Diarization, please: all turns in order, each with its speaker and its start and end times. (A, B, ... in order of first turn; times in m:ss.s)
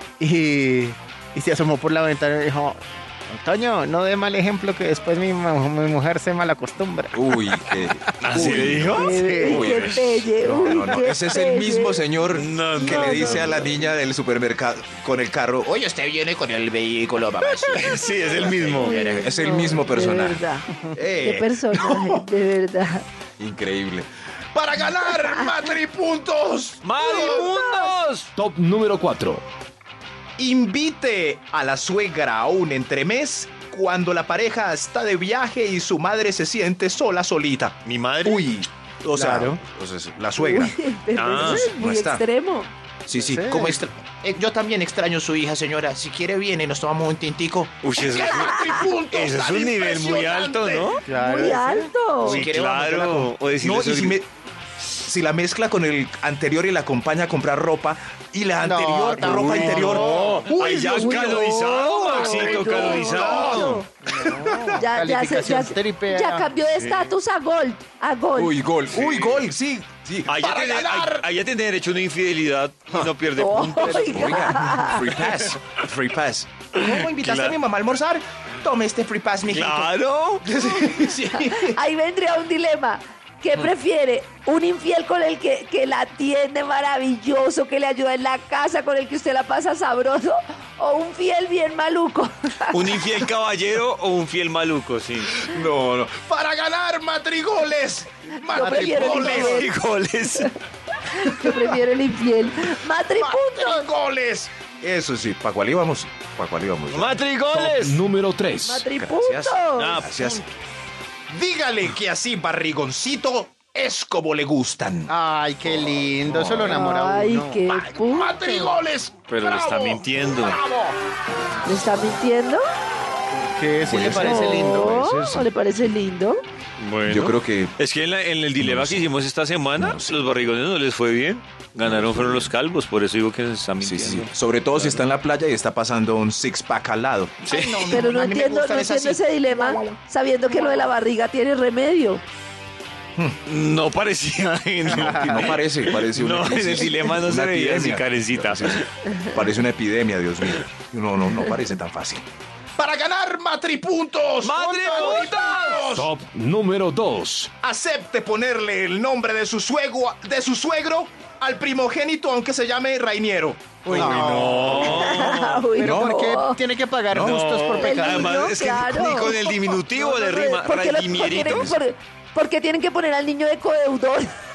0:00.2-0:09.7 A
0:07.1-0:22.3 B
0:08.2-0:10.2 C
0:08.9-0:12.0 D
0:12.3-0:13.9 C
0:12.7-0:13.6 D
0:17.6-0:19.0 C
0:18.8-0:20.7 D
0:21.2-0:23.1 D
0:23.4-0:27.4 B
0:25.2-0:25.7 D
0:26.8-0:28.3 C
0:27.0-0:27.9 D
0:28.3-0:29.4 E
0:30.4-0:42.2 B
0:37.8-0:38.4 C
0:39.1-0:39.6 A
0:40.4-0:42.7 D
0:41.2-0:41.7 C
0:43.1-0:51.0 B
0:43.1-0:43.8 A
0:47.8-0:51.0 C
0:48.2-0:48.9 D
0:51.1-0:51.9 A
0:51.1-0:52.4 D
0:52.2-0:54.2 C
0:52.2-0:54.3 B
0:54.8-1:04.8 B
0:58.6-1:00.5 A
0:59.2-1:03.8 C
1:00.9-1:03.9 D
1:04.0-1:06.5 A
1:04.8-1:08.6 D
1:08.4-1:11.3 B
1:08.9-1:09.5 C
1:10.3-1:15.6 C
1:13.4-1:15.1 D
1:13.8-1:21.8 B
1:16.8-1:17.6 C
1:19.5-1:20.4 C
1:21.3-1:33.0 D
1:32.7-1:35.5 C
1:35.3-1:39.6 B
1:38.5-1:39.6 A
1:38.5-1:39.7 D
1:39.3-1:40.6 C
1:41.0-1:43.9 D
1:43.2-1:47.2 B
1:46.9-1:48.0 C
1:47.5-1:48.9 E
1:48.6-1:50.0 D
1:48.9-1:50.5 B
1:49.8-1:50.4 C
1:51.3-1:55.1 B
1:55.1-1:57.6 A
1:56.2-1:56.7 C
1:56.6-1:58.8 D
1:57.7-2:01.0 B
1:59.3-2:00.6 C
2:01.6-2:02.6 D
2:03.4-2:05.0 A
2:03.8-2:05.5 B
2:04.0-2:06.4 D
2:06.8-2:15.1 C
2:07.1-2:07.7 B
2:08.6-2:09.1 B
2:09.8-2:10.2 B
2:11.8-2:12.5 B
2:13.8-2:19.9 B
2:17.4-2:18.0 C
2:17.9-2:22.2 D
2:23.5-2:28.9 C
2:24.9-2:25.4 A
2:24.9-2:32.3 B
2:32.8-2:36.1 B
2:34.4-2:35.9 C
2:35.8-2:37.5 E
2:37.6-2:45.0 B
2:43.8-2:48.4 A
2:43.9-2:45.6 C
2:44.8-2:46.6 D
2:45.8-2:46.2 B
2:47.1-2:47.4 B
2:47.2-2:51.7 C
2:47.8-2:54.3 D
2:51.1-2:51.8 B